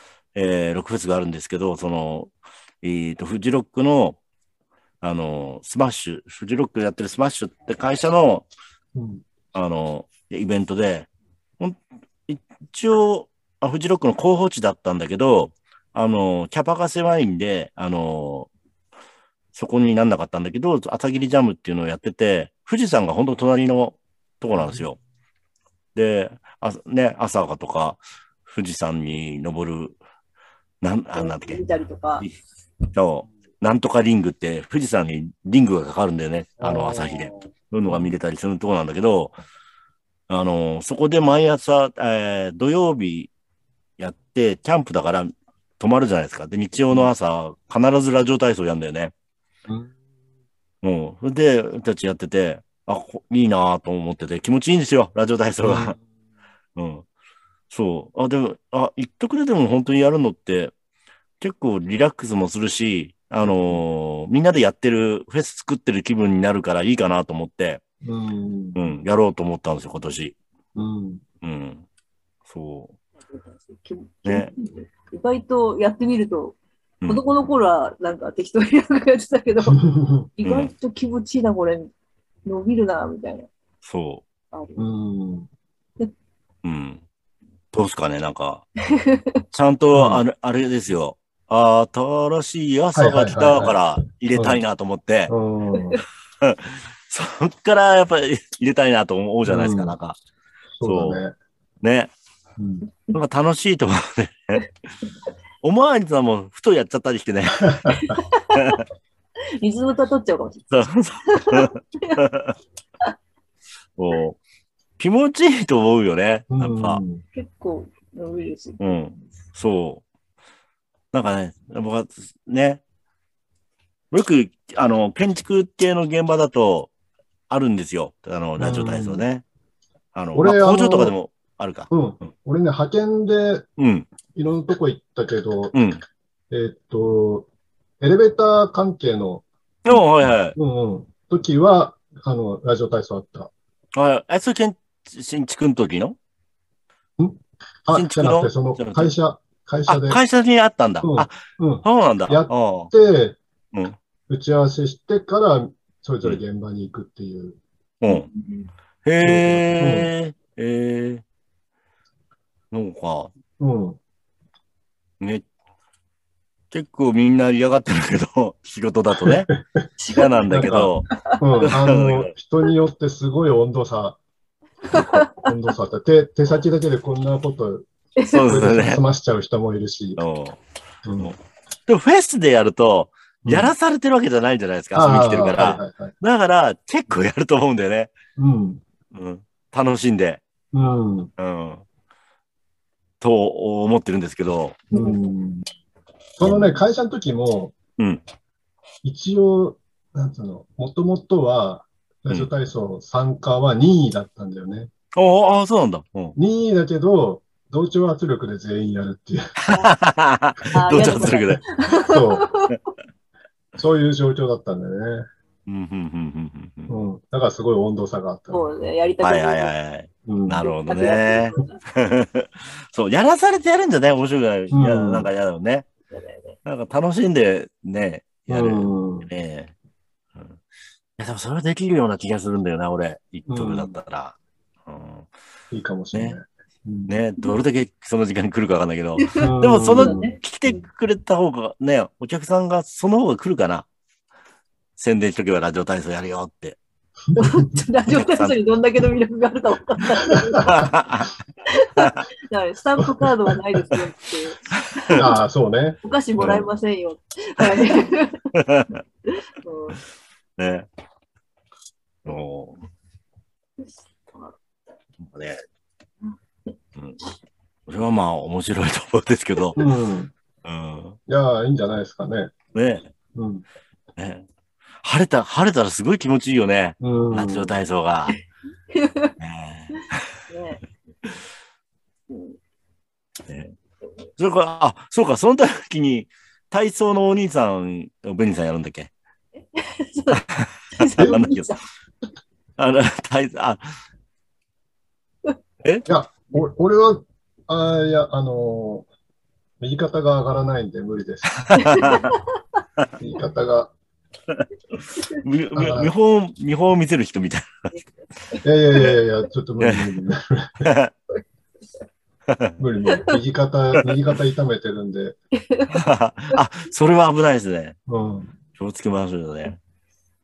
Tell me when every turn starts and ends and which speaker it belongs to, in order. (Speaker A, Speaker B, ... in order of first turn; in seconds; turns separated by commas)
Speaker A: 0.3-4.2, Speaker A: 5.0-8.4, Speaker B: 8.9-9.2, Speaker A: 9.5-11.1, Speaker A: 11.6-18.5, Speaker A: 19.5-25.0, Speaker A: 25.9-30.0, Speaker A: 30.8-31.6, Speaker C: 31.1-32.3, Speaker A: 32.9-39.4, Speaker B: 36.6-37.4, Speaker A: 40.3-43.3, Speaker A: 44.0-49.1, Speaker A: 50.8-56.0, Speaker B: 55.6-56.0, Speaker A: 56.8-57.0, Speaker A: 57.7-60.7, Speaker A: 61.4-67.8, Speaker B: 63.4-63.8, Speaker B: 68.0-68.9, Speaker A: 68.7-70.3, Speaker B: 70.8-71.2, Speaker A: 71.4-71.8, Speaker A: 72.5-72.9, Speaker C: 73.2-81.9, Speaker A: 74.2-74.5, Speaker B: 79.6-80.3, Speaker A: 80.4-80.7, Speaker C: 82.4-83.5, Speaker A: 83.8-84.2, Speaker C: 84.5-84.9, Speaker B: 84.8-85.5, Speaker A: 86.6-87.0, Speaker A: 87.7-88.6, Speaker C: 89.0-89.4, Speaker A: 89.5-95.3, Speaker B: 89.9-90.2, Speaker B: 92.9-94.6, Speaker B: 95.3-96.0, Speaker A: 96.4-100.2, Speaker B: 99.4-100.0, Speaker B: 100.8-101.3, Speaker A: 100.8-101.2, Speaker A: 101.8-102.1, Speaker B: 102.6-102.9, Speaker A: 103.1-104.6, Speaker A: 105.6-108.8, Speaker C: 107.9-108.8, Speaker C: 109.6-110.8, Speaker A: 110.7-112.5, Speaker C: 111.3-112.2, Speaker A: 114.0-114.4, Speaker A: 115.0-117.0, Speaker B: 116.5-117.2, Speaker C: 117.3-119.0, Speaker A: 118.8-120.0, Speaker A: 121.1-122.8, Speaker A: 124.1-126.9, Speaker A: 127.5-129.4, Speaker B: 128.6-129.2, Speaker A: 130.1-132.3, Speaker B: 130.3-131.2, Speaker B: 131.9-133.6, Speaker A: 133.8-134.1, Speaker B: 134.3-135.8, Speaker A: 135.7-136.0, Speaker B: 136.5-137.5, Speaker B: 138.0-140.0, Speaker A: 139.8-140.6, Speaker B: 140.5-143.5, Speaker A: 143.9-146.2, Speaker B: 147.2-150.2, Speaker A: 147.9-149.1, Speaker A: 149.9-152.9, Speaker B: 151.0-153.4, Speaker B: 154.3-157.6, Speaker A: 158.0-158.3, Speaker C: 158.1-158.7, Speaker A: 159.0-161.2, Speaker B: 159.2-160.1, Speaker A: 162.7-163.3, Speaker B: 163.6-164.0, Speaker A: 166.7-169.5, Speaker B: 169.2-169.6, Speaker C: 170.0-170.5, Speaker A: 170.1-172.3, Speaker B: 170.4-174.2, Speaker B: 174.9-177.9, Speaker C: 174.9-175.4, Speaker C: 178.2-178.6, Speaker A: 178.3-179.0, Speaker B: 178.4-180.2, Speaker A: 180.2-180.6, Speaker B: 181.0-181.3, Speaker A: 181.9-188.1, Speaker B: 183.4-183.7, Speaker B: 184.9-186.2, Speaker B: 188.4-188.8, Speaker A: 189.1-190.4, Speaker B: 190.7-191.3, Speaker A: 191.4-191.8, Speaker A: 193.2-194.8, Speaker C: 194.9-195.2, Speaker B: 194.9-195.7, Speaker B: 196.4-197.8, Speaker A: 196.4-196.8, Speaker A: 198.0-198.2, Speaker B: 199.0-204.9, Speaker A: 205.1-206.4, Speaker B: 206.3-209.7, Speaker A: 209.7-211.6, Speaker C: 210.7-212.7, Speaker B: 210.9-211.4, Speaker B: 212.0-212.4, Speaker B: 213.8-215.2, Speaker A: 215.7-216.9, Speaker B: 216.9-218.6, Speaker C: 218.5-219.7, Speaker A: 219.2-225.9, Speaker B: 220.2-220.7, Speaker C: 220.6-221.8, Speaker B: 224.7-225.3, Speaker C: 226.1-226.6, Speaker A: 226.6-229.7, Speaker B: 228.5-229.3, Speaker A: 230.3-230.6, Speaker A: 231.2-234.3, Speaker B: 233.5-233.9, Speaker A: 234.8-235.3, Speaker B: 235.7-237.1, Speaker A: 236.1-236.4, Speaker A: 237.1-243.8, Speaker C: 239.2-240.4, Speaker B: 239.4-240.7, Speaker A: 245.0-246.8, Speaker B: 247.3-247.8, Speaker C: 247.3-250.9, Speaker A: 248.1-248.5, Speaker A: 250.6-251.3, Speaker C: 251.8-255.3, Speaker B: 255.1-256.0, Speaker C: 256.0-258.4, Speaker A: 256.4-256.7, Speaker A: 258.6-258.9, Speaker C: 259.3-260.0, Speaker A: 260.6-260.9, Speaker A: 262.2-262.8, Speaker C: 263.8-264.5, Speaker A: 265.2-265.6, Speaker A: 267.9-269.8, Speaker B: 269.8-270.3, Speaker A: 270.6-271.2, Speaker B: 271.3-272.5, Speaker A: 272.7-273.1, Speaker B: 273.3-273.6, Speaker A: 274.2-274.4, Speaker A: 275.0-278.4, Speaker B: 277.0-277.8, Speaker C: 278.9-279.3, Speaker A: 279.4-280.2, Speaker C: 280.5-280.8, Speaker C: 282.3-282.6, Speaker A: 283.5-283.7, Speaker A: 284.4-289.1, Speaker C: 289.6-290.4, Speaker A: 290.6-291.7, Speaker C: 290.9-291.8, Speaker B: 291.2-291.5, Speaker A: 292.8-293.8, Speaker B: 296.1-299.1, Speaker B: 299.8-302.2, Speaker A: 301.7-302.2, Speaker C: 301.9-302.4, Speaker B: 303.2-303.9, Speaker A: 304.5-307.7, Speaker B: 305.7-306.1, Speaker C: 307.9-309.2, Speaker B: 308.6-310.9, Speaker A: 309.8-310.1, Speaker A: 310.8-311.1, Speaker B: 312.8-315.4, Speaker A: 315.9-317.9, Speaker B: 318.1-318.5, Speaker A: 318.8-319.8